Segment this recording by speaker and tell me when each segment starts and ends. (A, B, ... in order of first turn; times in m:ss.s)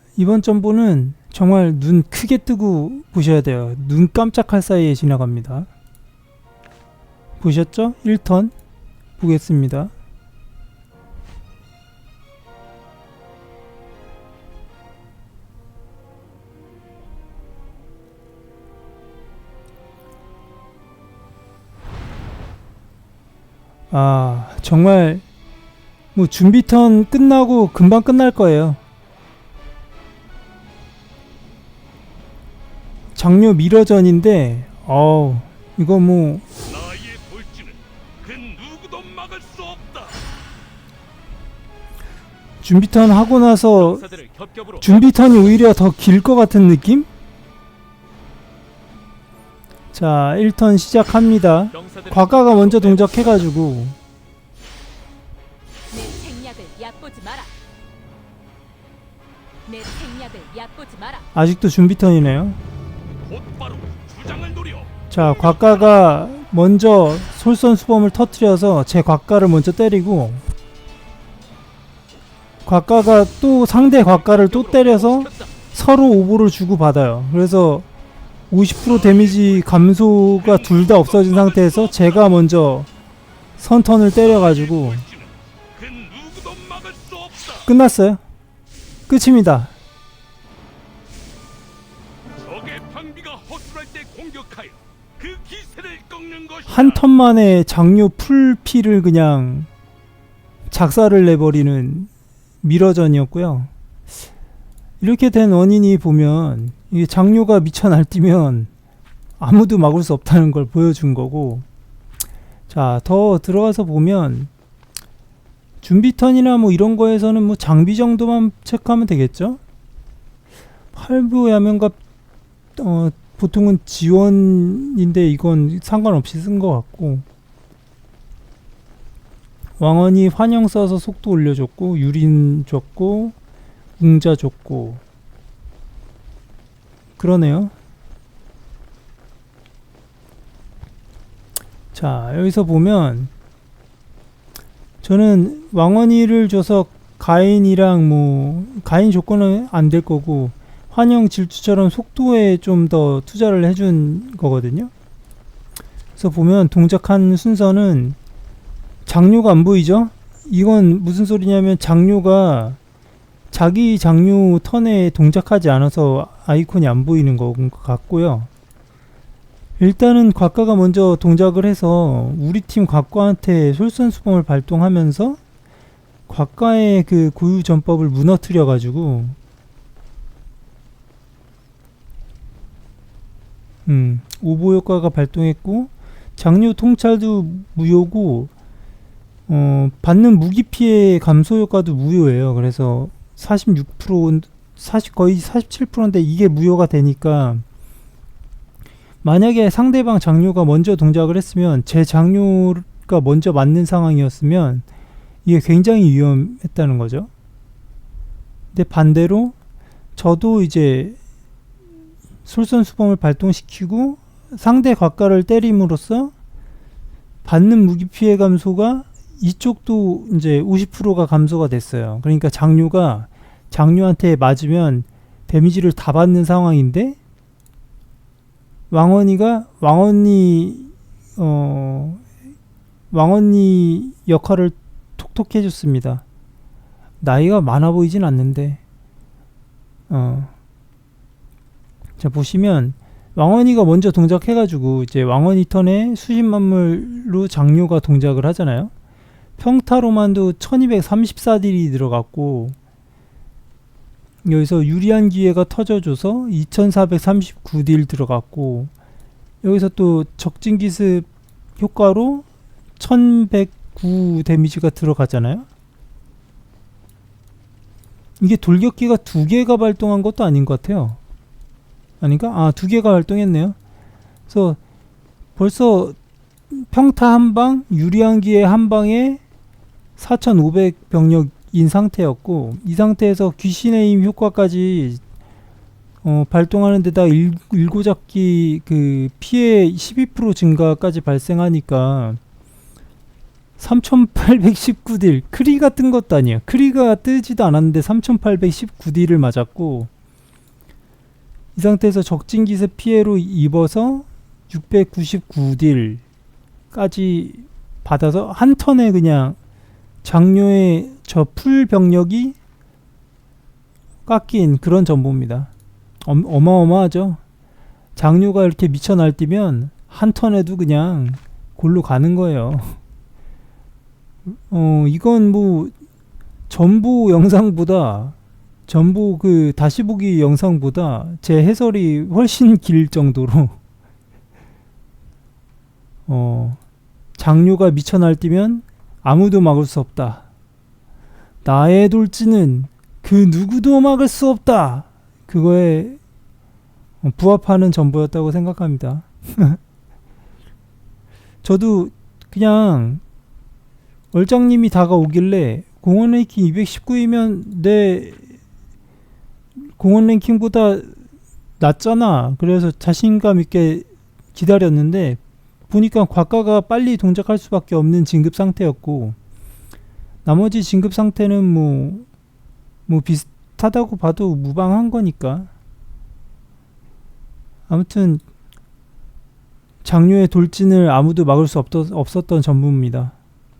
0:00.2-0:05.7 A
0:07.4-0:08.5 A
0:09.2-0:09.9 A
0:23.9-0:25.2 A
0:26.2-0:28.8 A
0:33.2-0:36.4 A
0:36.7-0:40.2 B
0:42.6-0:44.0 A
0:43.8-0:45.4 B
0:44.8-0:47.1 A
0:49.9-0:54.0 A
0:51.7-0:53.4 B
0:55.9-0:57.5 C
0:59.7-1:01.3 C
1:01.3-1:02.6 A
1:03.3-1:05.8 B
1:05.1-1:10.4 A
1:12.6-1:17.9 A
1:13.9-1:15.5 B
1:18.5-1:22.9 A
1:18.8-1:19.7 B
1:20.4-1:22.3 B
1:23.6-1:25.0 A
1:24.2-1:27.7 B
1:27.7-1:28.2 A
1:29.1-1:29.7 A
1:32.4-1:37.0 B
1:36.7-1:39.7 A
1:40.7-1:42.1 A
1:42.6-1:43.7 A
1:45.0-1:48.7 A
1:49.4-1:51.6 A
1:52.7-1:54.5 A
1:55.8-1:59.6 A
2:00.9-2:02.0 A
2:02.8-2:07.2 A
2:09.8-2:13.4 A
2:14.0-2:15.0 A
2:17.2-2:17.7 A
2:21.9-2:23.3 A
2:25.0-2:34.9 A
2:36.2-2:38.2 A
2:39.1-2:42.8 A
2:43.5-2:48.5 A
2:49.8-2:55.4 A
2:56.3-2:59.4 A
3:03.9-3:08.5 A
3:09.5-3:17.6 A
3:19.2-3:24.8 A
3:25.4-3:27.3 A
3:28.7-3:29.6 A
3:30.2-3:31.2 A
3:32.4-3:36.3 A
3:37.4-3:47.2 A
3:48.9-3:52.2 A
3:53.1-3:56.2 A
3:57.2-3:58.8 A
4:00.1-4:00.5 A
4:02.2-4:08.9 A
4:09.6-4:12.8 A
4:14.4-4:18.9 A
4:19.6-4:21.3 A
4:21.8-4:22.4 A
4:23.0-4:25.7 A
4:28.4-4:31.2 A
4:32.2-4:33.8 A
4:34.5-4:34.8 A
4:35.6-4:36.2 A
4:36.7-4:39.4 A
4:40.2-4:45.2 A
4:46.2-4:52.4 A
4:53.8-5:00.1 A
5:01.8-5:06.2 A
5:06.9-5:09.6 A
5:10.2-5:12.6 A
5:14.3-5:15.7 A
5:16.2-5:17.4 A
5:18.2-5:23.0 A
5:24.7-5:25.9 A
5:26.7-5:28.4 A
5:28.9-5:33.8 A
5:36.3-5:36.8 A
5:37.4-5:40.4 A
5:41.6-5:46.2 A
5:47.2-5:49.8 A
5:51.6-5:53.2 A
5:54.3-5:58.4 A
5:59.8-6:01.1 A
6:01.8-6:09.4 A
6:10.4-6:12.3 A
6:13.1-6:15.7 A
6:17.9-6:18.4 A
6:20.0-6:23.4 A